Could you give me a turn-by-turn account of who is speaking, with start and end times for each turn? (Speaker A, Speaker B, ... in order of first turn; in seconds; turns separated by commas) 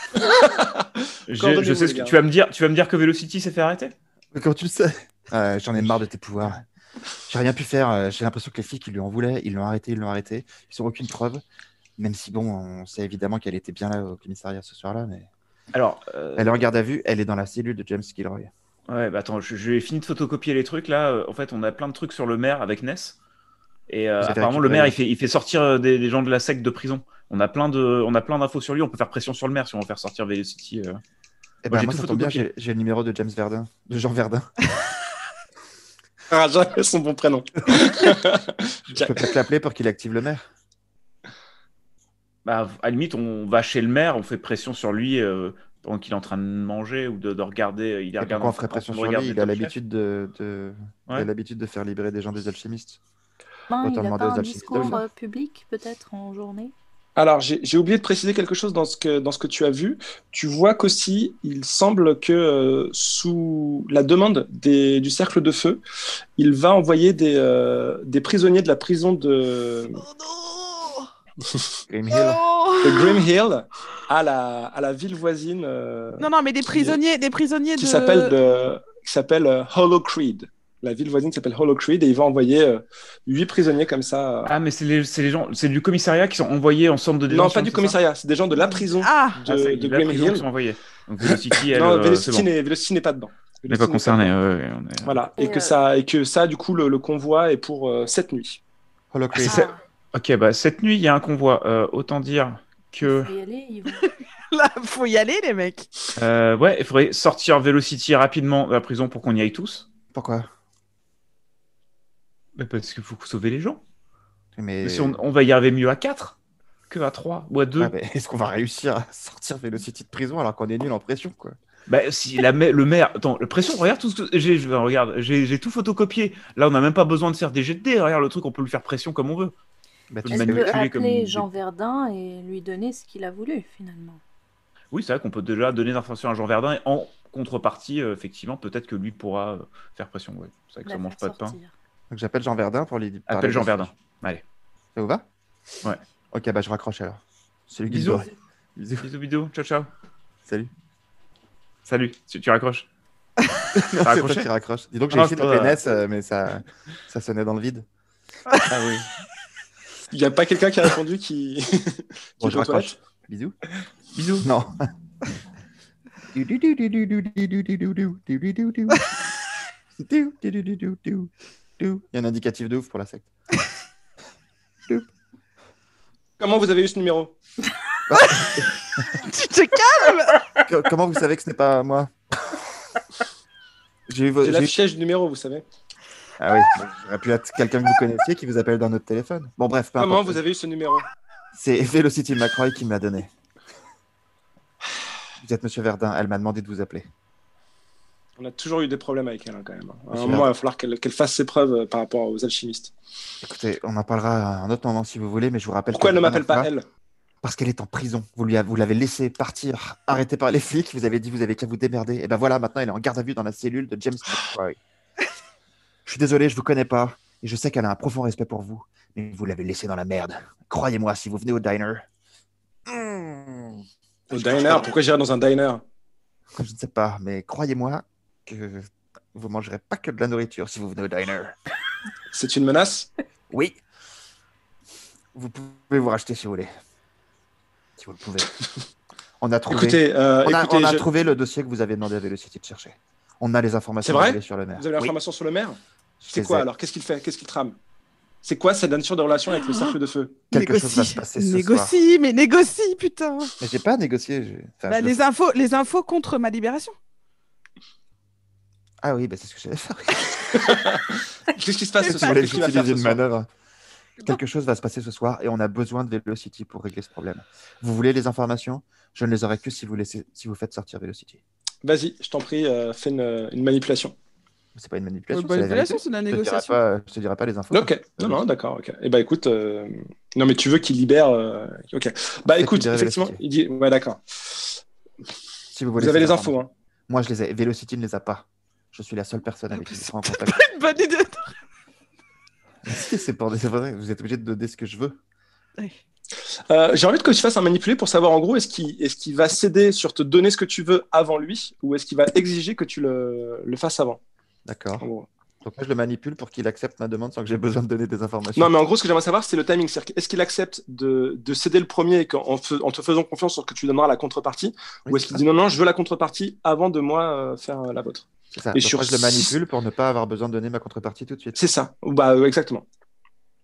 Speaker A: 0.4-2.2, Speaker B: 1.3-3.9, Speaker C: 4.3-6.6, Speaker C: 7.3-11.4, Speaker C: 12.0-15.3, Speaker B: 15.7-16.6, Speaker C: 16.4-18.5, Speaker B: 18.9-23.2, Speaker B: 23.9-31.0, Speaker C: 24.2-25.0, Speaker C: 31.6-34.5, Speaker B: 31.7-32.5, Speaker A: 36.3-39.3, Speaker C: 38.9-40.5, Speaker B: 42.5-49.7, Speaker C: 48.2-53.0, Speaker D: 53.7-56.7, Speaker C: 53.8-55.0, Speaker A: 57.2-65.8, Speaker A: 66.4-70.0, Speaker E: 70.0-71.1, Speaker C: 71.9-72.4, Speaker E: 72.1-73.3, Speaker A: 72.8-77.0, Speaker E: 76.2-78.3, Speaker A: 77.8-84.5, Speaker B: 84.5-88.0, Speaker A: 87.3-90.5, Speaker E: 89.0-89.4, Speaker B: 89.4-92.5, Speaker A: 91.6-94.3, Speaker B: 93.7-95.2, Speaker A: 95.0-98.6, Speaker D: 95.4-95.8, Speaker C: 99.1-99.7, Speaker B: 99.4-99.6, Speaker D: 99.5-99.8, Speaker B: 100.1-103.3, Speaker D: 103.0-104.1, Speaker E: 104.0-105.9, Speaker B: 106.2-109.9, Speaker C: 110.1-110.5, Speaker B: 112.6-113.8, Speaker C: 114.6-115.2, Speaker B: 114.8-116.4, Speaker B: 116.9-117.9, Speaker C: 117.8-121.6, Speaker B: 121.9-129.5, Speaker C: 130.1-130.8, Speaker B: 130.2-131.5, Speaker D: 130.3-134.2, Speaker B: 134.9-141.6, Speaker D: 140.9-141.7, Speaker C: 142.1-143.9, Speaker B: 143.3-144.4, Speaker C: 144.9-145.2, Speaker C: 146.3-149.1, Speaker B: 147.9-148.3, Speaker B: 149.0-149.9, Speaker B: 151.9-152.9, Speaker C: 153.7-157.9, Speaker B: 153.9-154.5, Speaker B: 155.1-155.8, Speaker B: 158.7-159.1, Speaker A: 160.1-162.9, Speaker C: 162.4-163.6, Speaker B: 164.2-164.5, Speaker C: 164.4-164.9, Speaker C: 166.3-169.1, Speaker C: 170.0-173.3, Speaker A: 176.4-177.3, Speaker C: 178.1-178.7, Speaker E: 178.2-180.5, Speaker C: 180.7-182.1, Speaker C: 184.1-184.8, Speaker A: 184.4-185.7, Speaker C: 186.4-190.4, Speaker A: 190.0-191.1, Speaker C: 191.5-193.3, Speaker C: 195.4-197.1, Speaker A: 198.4-202.9, Speaker C: 200.1-200.5, Speaker C: 203.4-206.7, Speaker A: 205.9-206.9, Speaker C: 207.4-214.8, Speaker C: 216.1-222.0, Speaker C: 222.9-223.8, Speaker C: 224.3-224.9, Speaker A: 224.3-225.8, Speaker C: 226.5-231.6, Speaker A: 232.3-233.1, Speaker C: 233.5-233.8, Speaker C: 235.3-236.7, Speaker C: 238.0-238.5, Speaker C: 239.4-245.1, Speaker A: 239.7-241.1, Speaker A: 244.0-245.8, Speaker C: 246.2-246.7, Speaker A: 246.3-247.8, Speaker A: 248.4-250.4, Speaker E: 249.5-250.0, Speaker E: 250.5-253.6, Speaker C: 250.5-251.9, Speaker C: 253.6-255.2, Speaker E: 254.9-256.9, Speaker C: 259.0-260.8, Speaker A: 260.5-263.2, Speaker E: 262.0-262.8, Speaker C: 262.1-263.5, Speaker C: 264.2-271.4, Speaker A: 271.8-274.1, Speaker C: 274.8-278.4, Speaker E: 275.3-276.8, Speaker A: 277.7-284.8, Speaker C: 282.6-283.4, Speaker C: 285.7-290.6, Speaker A: 286.0-286.7, Speaker E: 289.7-291.5, Speaker C: 292.9-295.2, Speaker A: 296.7-304.2, Speaker C: 304.7-305.1, Speaker A: 305.0-305.3, Speaker C: 305.6-308.7, Speaker A: 308.6-319.6, Speaker C: 315.1-315.4, Speaker C: 318.5-321.6, Speaker A: 321.6-322.9